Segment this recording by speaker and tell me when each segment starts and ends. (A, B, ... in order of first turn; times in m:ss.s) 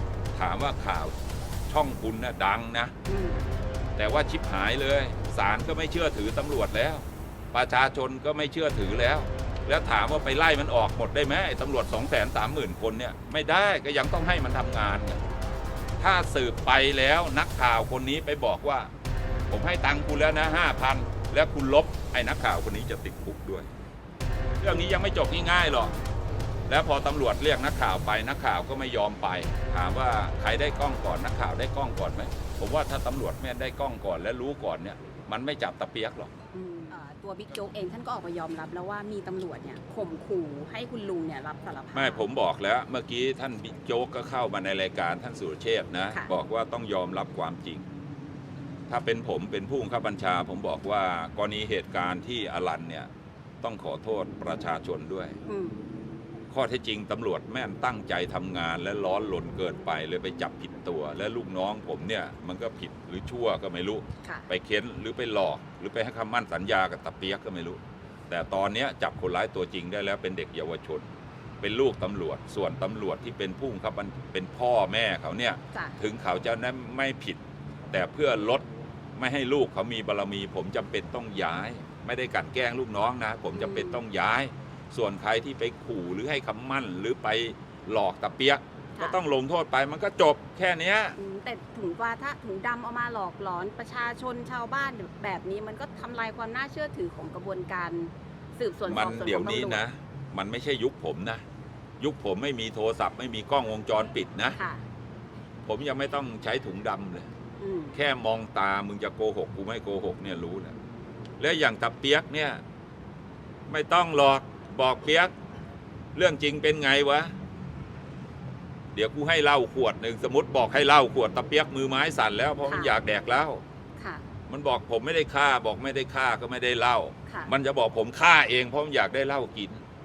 0:00.3-0:02.9 A
0:03.0-0:03.5 B
0:04.0-0:15.2 A
0:16.0-0:18.9 A
0:19.5-0:23.7 A
0:24.6-0:25.9 A
0:25.8-0:26.1 B
0:26.7-0:36.3 A
0:36.5-0:42.3 B
0:41.9-0:47.8 A
0:48.9-0:53.1 A
0:53.6-0:55.4 A
0:55.5-0:55.8 B
0:56.5-1:11.1 A
1:04.2-1:04.5 B
1:11.6-1:18.6 A
1:15.7-1:16.0 B
1:19.2-1:31.2 A
1:23.5-1:24.0 B
1:31.2-1:39.8 B
1:38.9-1:41.4 A
1:42.0-1:44.6 A
1:44.5-1:44.8 B
1:45.6-1:47.3 A
1:47.6-1:48.0 B
1:47.9-1:50.7 A
1:51.4-1:52.6 A
1:53.7-1:55.3 A
1:56.1-1:57.3 A
1:58.9-2:03.6 A
2:02.6-2:03.0 B
2:04.0-2:04.2 B
2:04.5-2:09.8 A